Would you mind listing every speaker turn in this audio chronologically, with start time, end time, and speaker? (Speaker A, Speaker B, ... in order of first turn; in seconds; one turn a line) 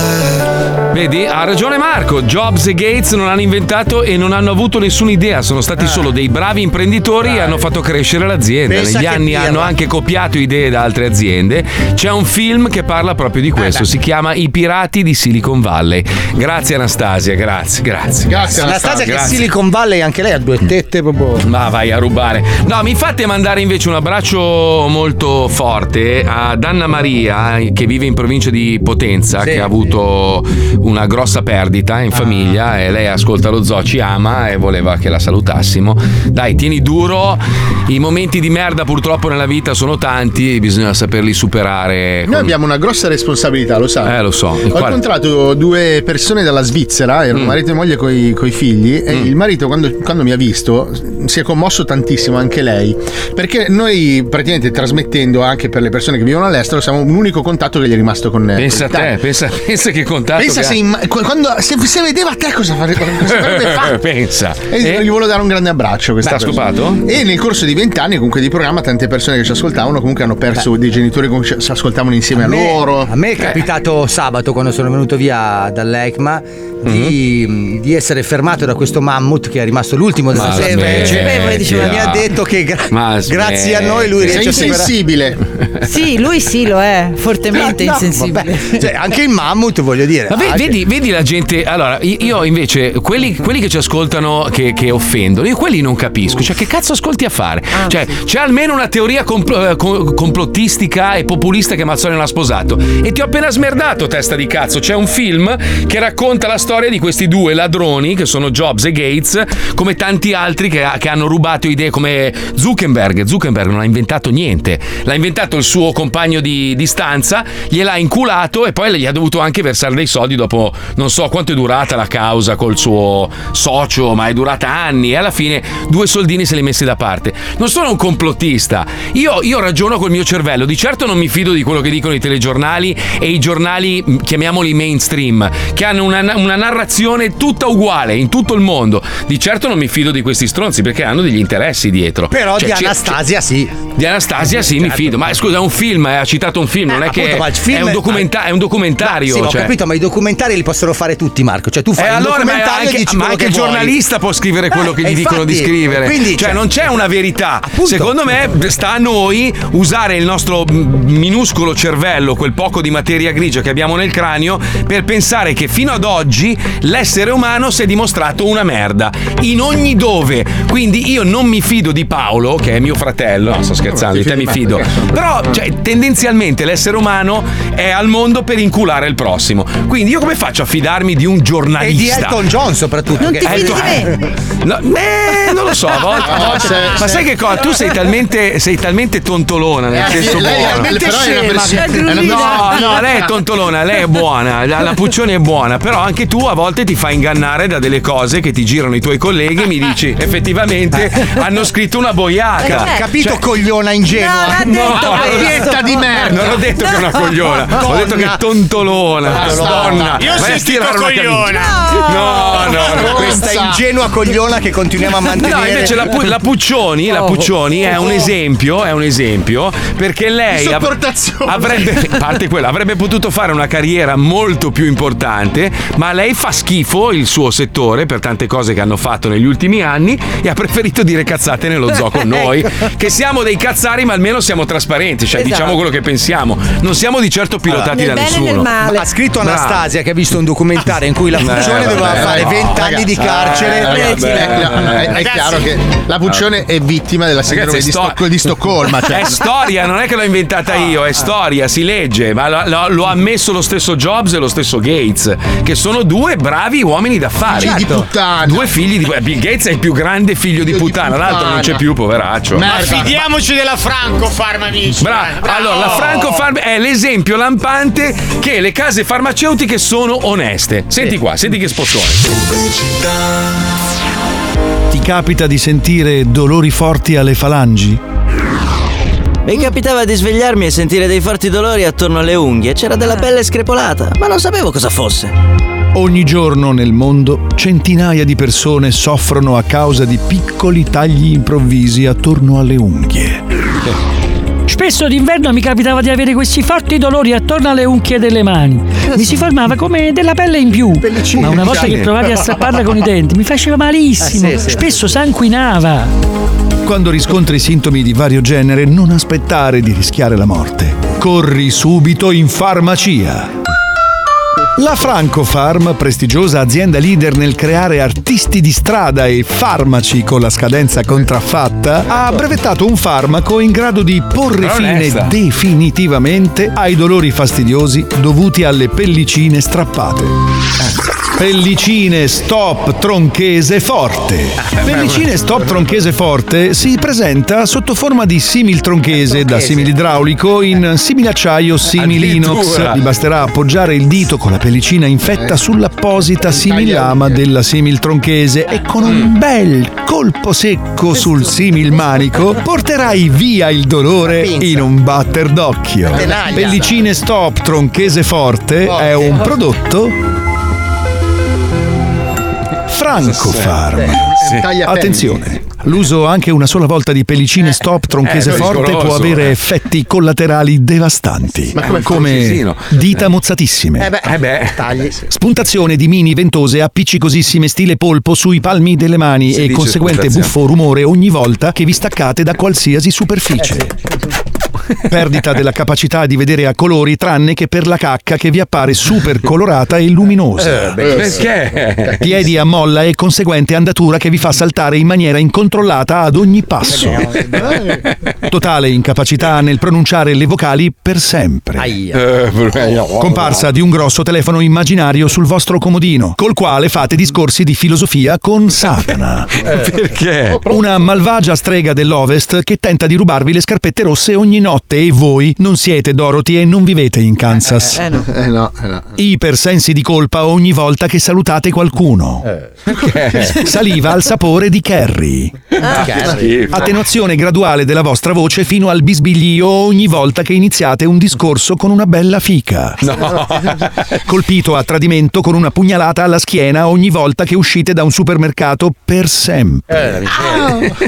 Speaker A: 0.9-19.5
Speaker B: 7.2-7.6
Speaker B: 8.7-9.7
Speaker B: 13.6-13.9
Speaker C: 18.2-19.2
Speaker B: 18.6-21.4
Speaker A: 21.4-42.5
Speaker B: 29.4-29.7
Speaker C: 42.3-59.2
Speaker A: 44.0-45.0
Speaker A: 58.5-60.8
Speaker C: 60.4-64.0
Speaker A: 63.2-65.1
Speaker C: 64.7-73.1
Speaker A: 66.2-67.1
Speaker B: 72.3-84.9
Speaker A: 76.8-77.2
Speaker A: 80.3-82.3
Speaker A: 82.9-84.8
Speaker C: 84.2-85.4
Speaker D: 85.8-88.8
Speaker B: 87.5-90.8
Speaker A: 90.3-143.2
Speaker D: 97.8-98.0
Speaker B: 142.3-143.9
Speaker A: 143.9-149.7
Speaker B: 144.5-145.1
Speaker B: 146.9-148.3
Speaker B: 149.0-154.0
Speaker A: 151.9-182.5
Speaker B: 154.9-156.6
Speaker B: 157.7-158.1
Speaker C: 173.9-175.6
Speaker B: 181.8-184.1
Speaker D: 183.2-184.2
Speaker A: 183.2-191.0
Speaker C: 186.2-187.2
Speaker C: 189.9-193.2
Speaker B: 189.9-192.5
Speaker D: 191.8-192.4
Speaker A: 192.2-203.3
Speaker D: 202.6-203.2
Speaker B: 202.6-206.5
Speaker D: 204.1-206.1
Speaker A: 204.6-205.7
Speaker C: 205.0-206.7
Speaker A: 206.3-213.5
Speaker D: 206.8-207.6
Speaker B: 207.6-208.4
Speaker C: 209.3-210.0
Speaker B: 209.3-210.4
Speaker E: 210.0-211.8
Speaker D: 211.6-212.3
Speaker C: 212.3-213.8
Speaker B: 212.5-216.1
Speaker A: 215.2-220.9
Speaker D: 217.1-217.4
Speaker C: 220.5-222.1
Speaker A: 221.4-238.8
Speaker D: 235.3-235.8
Speaker D: 237.7-239.1
Speaker B: 238.8-244.1
Speaker A: 239.4-239.8
Speaker A: 241.3-245.3
Speaker C: 241.6-249.4
Speaker D: 244.0-244.4
Speaker E: 245.1-245.7
Speaker A: 247.4-248.2
Speaker A: 249.1-257.9
Speaker C: 257.5-258.7
Speaker B: 257.5-258.1
Speaker A: 258.4-262.7
Speaker C: 260.6-261.8
Speaker C: 262.5-263.2
Speaker E: 262.6-266.4
Speaker A: 265.0-272.4
Speaker F: 274.9-278.0
Speaker G: 279.4-285.3
Speaker F: 285.9-293.4
Speaker H: 294.7-306.1
Speaker B: 300.9-302.1
Speaker A: 301.7-302.1
Speaker B: 304.2-305.1
Speaker F: 306.8-313.5
Speaker F: 314.8-330.3
Speaker A: 324.5-325.3
Speaker F: 331.4-360.2
Speaker A: 334.9-335.2
Speaker B: 339.1-339.9
Speaker A: 341.9-343.1
Speaker C: 346.4-347.4
Speaker B: 354.2-354.9
Speaker B: 356.1-356.9
Speaker C: 356.1-356.9
Speaker B: 359.2-359.4
Speaker F: 362.9-374.2
Speaker A: 363.2-363.8
Speaker C: 364.1-365.5
Speaker A: 364.4-364.7
Speaker A: 368.2-369.6
Speaker C: 371.7-372.3
Speaker A: 371.8-373.3
Speaker B: 374.0-375.3
Speaker A: 374.2-374.8
Speaker F: 375.2-383.9
Speaker A: 379.5-380.5
Speaker B: 383.6-383.9
Speaker F: 385.1-391.1
Speaker B: 390.6-391.5
Speaker A: 391.1-392.4
Speaker F: 392.1-397.3
Speaker B: 392.1-392.4
Speaker B: 396.8-397.8
Speaker C: 397.6-398.0
Speaker F: 398.5-401.9
Speaker B: 401.8-402.2
Speaker A: 402.1-403.6
Speaker F: 403.1-409.6
Speaker A: 409.6-410.6
Speaker F: 410.6-418.0
Speaker C: 418.1-419.1
Speaker F: 419.2-422.5
Speaker A: 422.9-423.6
Speaker C: 422.9-423.6
Speaker F: 423.4-425.6
Speaker A: 425.8-426.9
Speaker B: 425.8-426.6
Speaker F: 426.6-433.1
Speaker A: 433.0-434.0
Speaker F: 434.2-440.2
Speaker B: 439.9-441.0